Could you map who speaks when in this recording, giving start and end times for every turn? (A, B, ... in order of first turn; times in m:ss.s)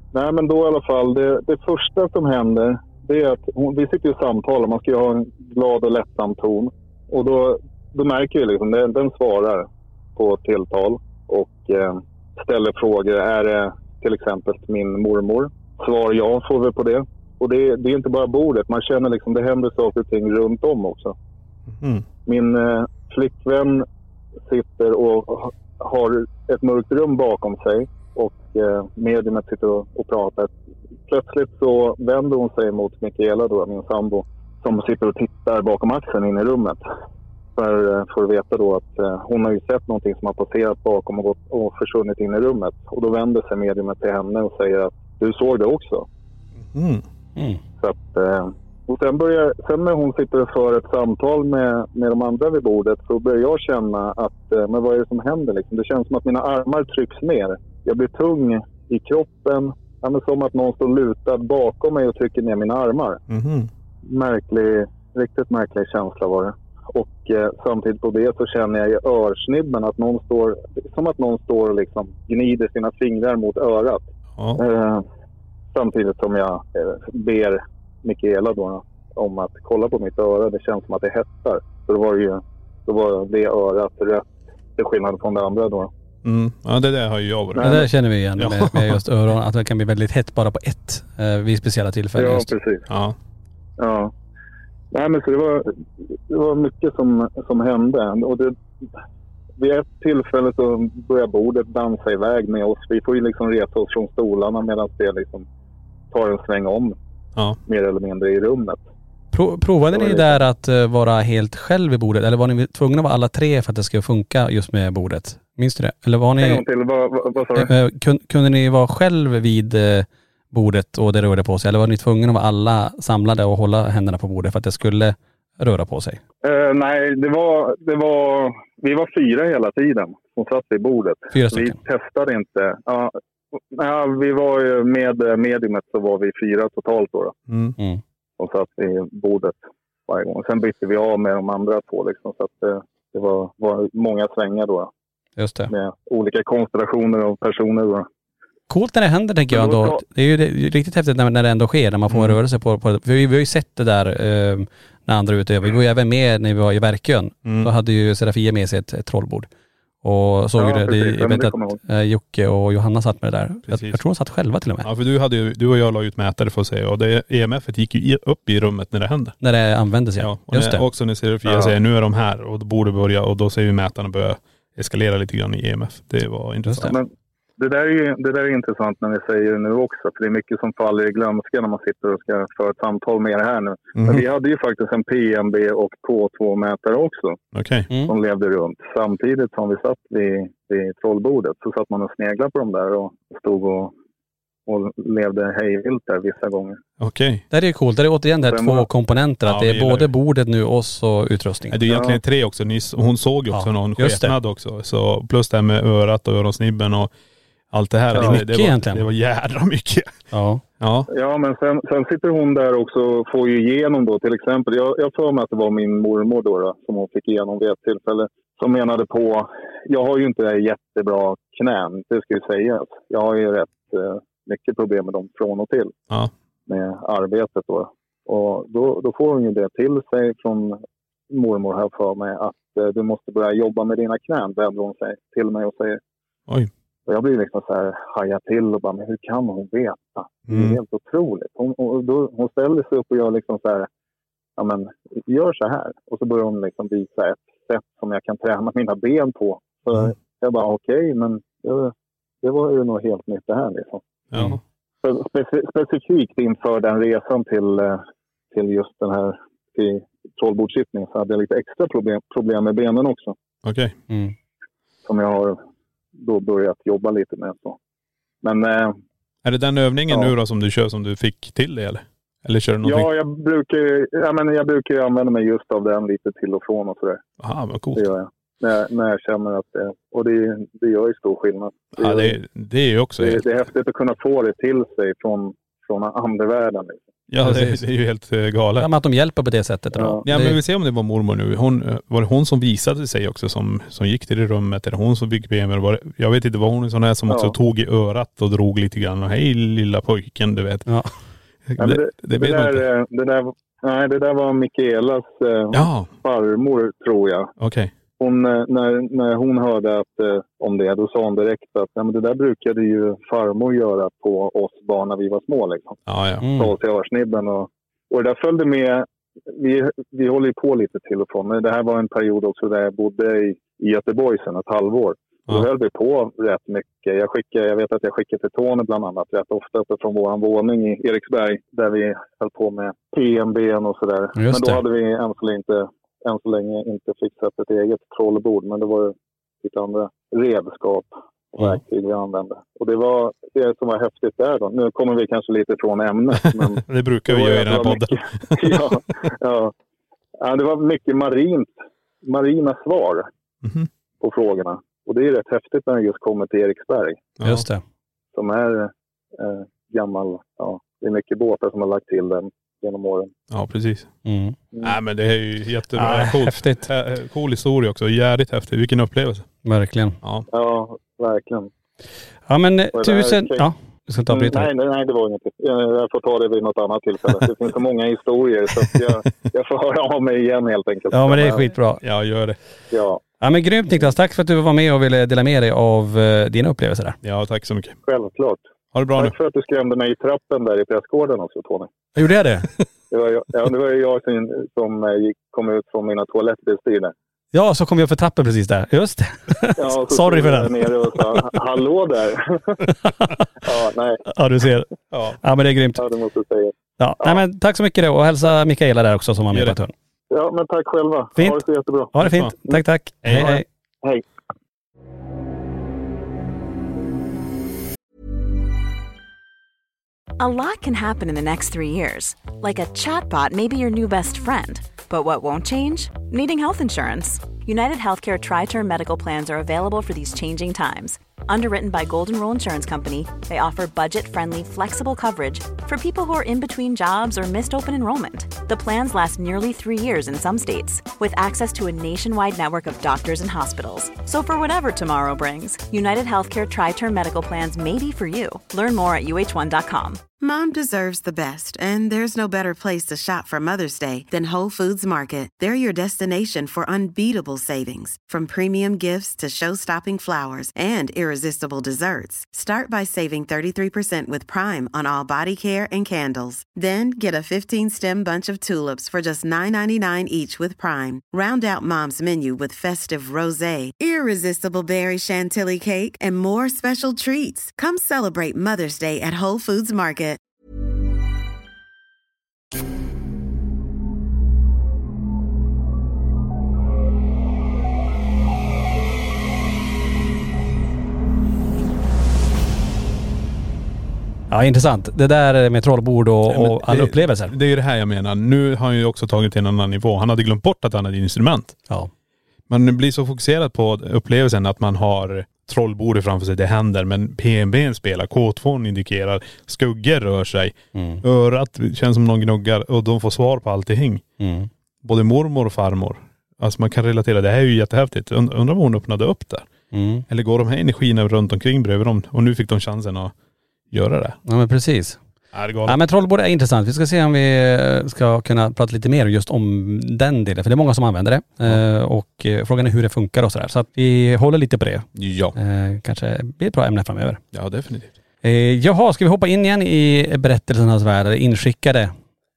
0:00.1-0:21.2 A
0:21.8-0:22.1 B
0:22.3-0:23.8 A
0:24.5-0:30.5 A
0:31.1-0:36.8 A
0:37.6-0:46.1 A
0:46.7-0:47.0 B
0:47.8-1:03.2 A
1:03.3-1:03.7 B
1:04.0-1:15.0 A
1:15.7-1:25.9 A
1:26.2-1:27.8 B
1:27.6-1:27.9 A
1:27.6-1:32.5 C
1:28.4-1:29.0 B
1:32.2-1:32.9 A
1:32.9-1:33.2 B
1:33.8-1:34.1 A
1:34.9-1:38.6 A
1:39.6-1:45.5 A
1:46.1-1:47.0 A
1:47.7-1:48.8 A
1:49.3-1:56.6 C
1:49.9-1:50.4 A
1:56.4-1:57.7 A
1:57.6-2:06.2 C
2:06.4-2:13.2 A
2:11.3-2:11.8 C
2:13.7-2:17.3 A
2:17.5-2:17.8 B
2:18.4-2:24.9 A
2:25.4-2:25.7 C
2:25.7-2:28.1 A
2:28.7-2:39.5 C
2:29.5-2:30.0 A
2:32.1-2:32.4 B
2:37.4-2:37.7 B
2:40.0-2:44.9 C
2:40.6-2:41.8 A
2:43.7-2:44.0 B
2:44.8-2:49.4 B
2:49.4-2:50.8 C
2:50.2-2:57.0 B
2:56.7-2:56.9 C
2:56.9-3:07.4 A
3:04.0-3:04.2 B
3:07.5-3:07.9 B
3:08.1-3:13.9 A
3:14.7-3:16.8 A
3:17.0-3:17.4 B
3:17.5-3:21.8 C
3:18.5-3:18.9 A
3:19.5-3:20.1 B
3:21.7-3:27.1 B
3:21.8-3:22.2 A
3:23.5-3:24.3 C
3:27.7-3:30.2 B
3:28.2-3:29.0 C
3:30.3-3:30.6 C
3:30.8-3:31.1 B
3:31.1-3:45.9 A
3:46.7-3:56.0 A
3:57.1-4:03.9 A
4:00.5-4:00.8 B
4:04.6-4:14.0 A
4:14.3-4:14.6 B
4:15.0-4:23.4 A
4:23.6-4:24.0 B
4:24.1-4:24.4 C
4:25.0-4:25.6 A
4:26.2-4:27.8 A
4:28.4-4:29.0 A
4:29.4-4:33.1 B
4:32.8-4:37.2 A
4:37.4-4:38.1 B
4:38.0-4:42.4 A
4:42.0-4:43.4 B
4:43.2-4:47.0 A
4:47.3-4:48.9 B
4:47.4-4:47.8 C
4:48.8-4:50.6 C
4:50.0-4:50.2 A
4:50.2-5:00.9 B
4:57.3-4:57.6 A
5:00.9-5:01.2 C
5:01.7-5:02.8 B
5:01.8-5:07.5 A
5:05.7-5:06.1 B
5:07.6-5:07.9 B
5:08.2-5:16.0 A
5:16.1-5:16.5 B
5:16.4-5:16.7 C
5:16.5-5:49.7 A
5:34.4-5:34.8 C
5:46.5-5:48.9 B
5:50.4-5:53.3 A
5:53.6-5:53.9 B
5:54.2-5:57.2 A
5:57.4-5:57.7 B
5:57.4-5:57.8 C
5:58.3-6:03.3 A
6:03.5-6:04.1 B
6:04.2-6:04.6 C
6:04.8-6:09.5 B
6:06.0-6:06.9 C
6:09.6-6:10.2 C
6:10.5-6:11.7 A
6:12.5-6:14.7 C
6:13.0-6:13.7 A
6:14.3-6:21.7 A
6:21.1-6:22.0 C
6:22.0-6:22.6 B
6:22.9-6:23.2 A
6:23.4-6:27.2 C
6:27.2-6:28.0 B
6:28.1-6:28.6 A
6:28.9-6:29.3 B
6:29.2-6:31.9 A
6:32.2-6:32.7 C
6:33.1-6:37.1 A
6:37.5-6:41.5 C
6:39.8-6:42.9 A
6:43.1-6:43.3 C
6:43.6-6:44.2 A
6:44.3-6:46.0 C
6:45.1-6:45.4 B
6:46.0-6:47.4 A
6:47.0-6:49.9 C
6:49.5-6:49.8 B
6:50.3-6:52.2 A
6:52.1-6:53.6 C
6:52.2-6:52.5 B
6:53.2-6:53.6 B
6:53.3-6:54.2 A
7:00.4-7:30.2 D
7:30.4-8:00.4 E
8:14.5-8:17.5 C
8:16.5-8:21.8 B
8:22.7-8:34.2 B
8:30.9-8:31.2 C
8:34.4-8:34.7 C
8:35.0-8:39.7 B
8:39.9-8:40.3 C
8:40.3-8:43.3 B
8:43.9-8:44.4 B
8:44.5-8:45.2 C
8:45.5-8:46.0 B
8:45.9-8:57.4 C
8:55.2-8:55.6 B
8:57.5-8:58.1 B
8:58.4-9:02.1 C